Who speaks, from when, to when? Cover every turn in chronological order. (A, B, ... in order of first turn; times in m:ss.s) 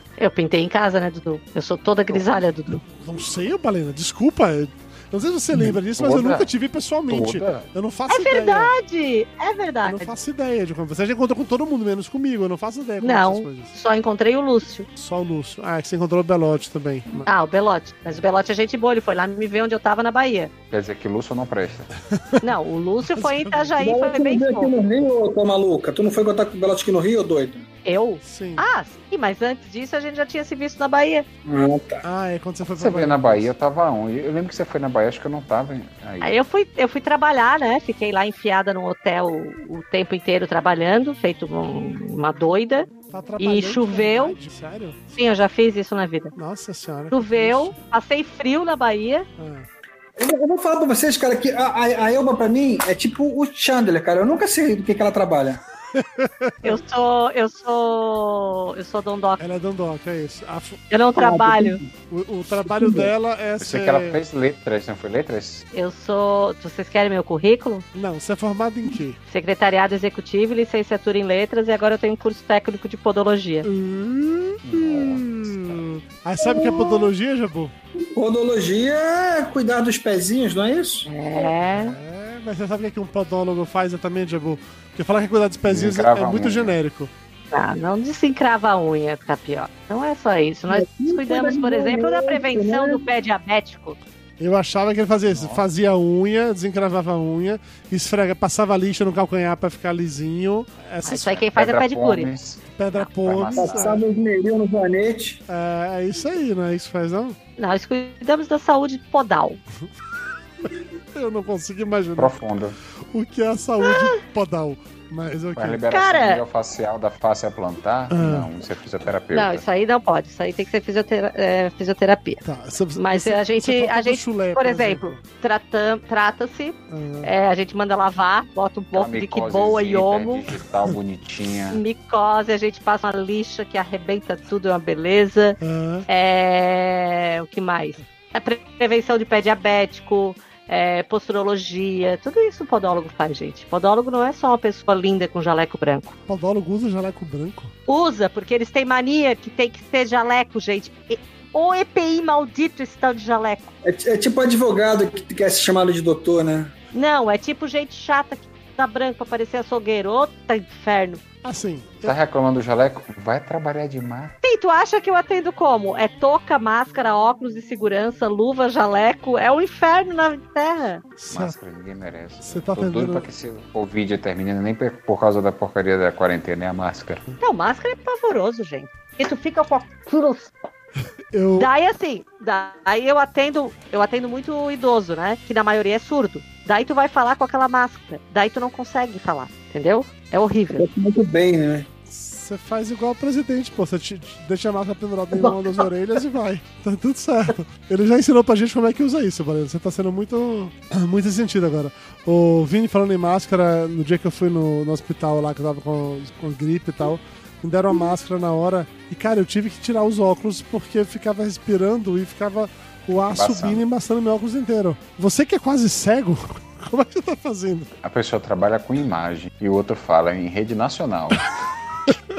0:00.2-0:02.8 A
0:02.9-0:08.7 B
0:06.0-0:06.5 C
0:07.1-0:07.7 C
0:08.1-0:10.1 A
0:09.8-0:13.7 B
0:13.0-0:14.9 A
0:15.0-0:17.3 B
0:17.3-0:20.5 A
0:20.7-0:21.9 C
0:22.1-0:22.4 B
0:22.4-0:24.7 A
0:23.2-0:23.8 B
0:23.8-0:27.7 D
0:27.8-0:31.2 A
0:28.2-0:28.6 B
0:31.4-0:32.0 D
0:32.0-0:33.5 B
0:32.8-0:36.4 C
0:36.2-0:44.4 A
0:43.1-0:45.0 B
0:45.1-0:46.3 A
0:46.4-0:47.8 B
0:47.1-0:49.3 A
0:49.4-0:49.7 B
0:50.2-0:55.6 D
0:56.0-0:56.8 B
0:56.6-0:59.4 A
0:59.4-1:00.8 B
1:00.9-1:01.8 A
1:01.2-1:01.9 D
1:02.1-1:04.2 B
1:02.7-1:03.1 D
1:03.6-1:05.6 C
1:05.7-1:07.8 A
1:07.9-1:09.2 B
1:09.3-1:13.7 A
1:13.6-1:17.7 B
1:14.6-1:15.9 C
1:16.4-1:17.1 D
1:18.2-1:21.5 D
1:21.1-1:22.0 A
1:21.7-1:27.1 B
1:25.7-1:26.8 C
1:27.5-1:34.0 A
1:30.7-1:33.0 D
1:34.4-1:41.4 B
1:35.3-1:35.6 C
1:41.0-1:42.3 A
1:41.3-1:44.2 C
1:42.8-1:44.0 B
1:43.6-1:45.4 D
1:45.5-1:47.4 B
1:47.6-1:49.6 A
1:51.2-1:52.4 B
1:52.2-1:52.8 C
1:53.1-1:55.8 B
1:55.6-1:59.6 C
1:55.9-1:56.4 A
1:58.1-1:58.5 B
1:59.3-2:02.4 A
2:02.4-2:05.2 B
2:03.0-2:10.4 A
2:06.9-2:07.3 B
2:08.9-2:11.8 C
2:11.7-2:26.1 A
2:15.6-2:16.1 B
2:26.3-2:27.7 B
2:27.9-2:33.7 A
2:33.8-2:36.7 D
2:36.9-2:41.2 A
2:41.4-2:42.2 B
2:42.0-2:44.3 C
2:44.4-2:51.0 A
2:51.2-2:51.6 B
2:51.3-2:57.2 C
2:52.4-2:53.3 B
2:57.4-3:00.5 A
3:01.3-3:01.7 B
3:01.6-3:10.8 A
3:10.8-3:11.9 D
3:12.1-3:37.9 B
3:33.3-3:33.8 C
3:38.0-3:41.5 C